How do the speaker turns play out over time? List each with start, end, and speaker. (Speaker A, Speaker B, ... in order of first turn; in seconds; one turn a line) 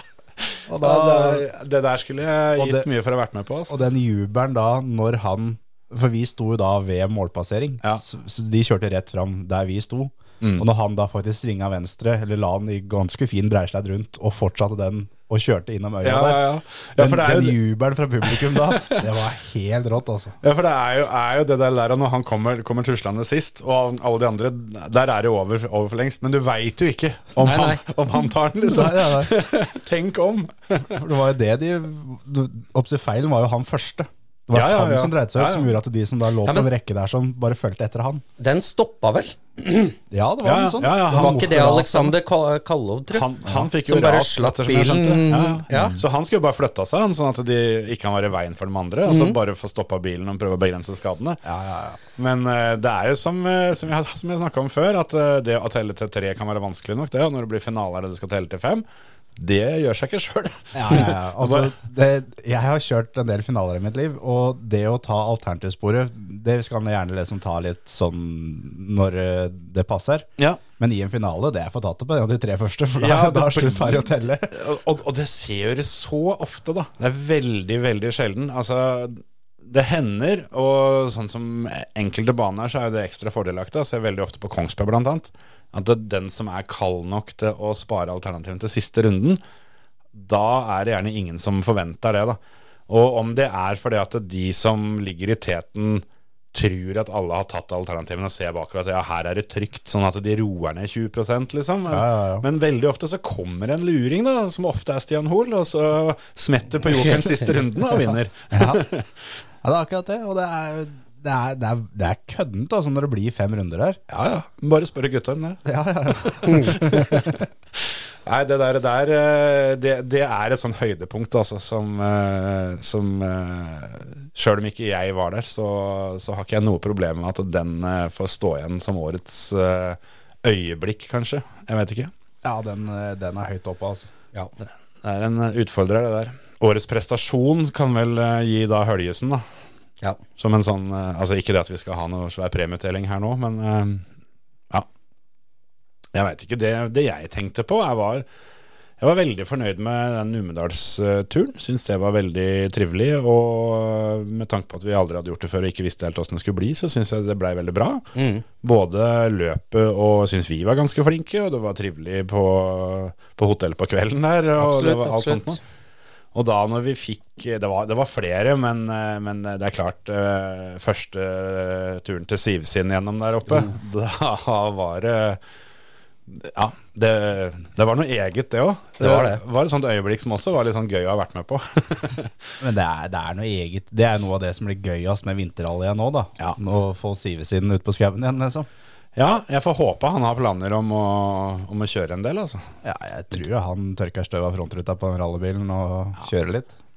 Speaker A: 0.5-3.7
Speaker B: 0.7-1.4
Speaker B: 2.6-2.9
Speaker B: 3.7-16.4
Speaker A: 10.4-10.7
Speaker A: 16.0-17.6
Speaker B: 17.0-20.4
Speaker A: 18.2-19.1
Speaker A: 20.4-31.0
Speaker C: 27.4-27.9
Speaker B: 28.6-29.3
Speaker B: 30.9-38.2
Speaker A: 34.5-35.8
Speaker C: 38.4-40.0
Speaker B: 40.1-42.1
Speaker A: 40.4-41.7
Speaker C: 41.1-46.0
Speaker A: 43.1-51.4
Speaker C: 49.0-49.4
Speaker B: 51.4-52.0
Speaker A: 52.2-58.8
Speaker A: 59.4-61.7
Speaker B: 60.7-74.5
Speaker A: 73.0-89.4
Speaker A: 90.1-109.1
Speaker B: 101.9-102.5
Speaker B: 108.5-108.8
Speaker B: 109.6-114.0
Speaker A: 114.1-115.6
Speaker B: 115.6-117.5
Speaker A: 116.2-132.1
Speaker B: 132.4-134.1
Speaker A: 135.0-139.4
Speaker A: 140.4-144.1
Speaker A: 146.1-148.2
Speaker A: 149.0-158.1
Speaker C: 158.1-158.4
Speaker A: 158.6-165.6
Speaker C: 164.6-165.6
Speaker A: 166.3-175.4
Speaker A: 176.3-182.5
Speaker C: 179.0-179.4
Speaker B: 182.6-188.7
Speaker A: 189.2-192.7
Speaker B: 192.8-196.7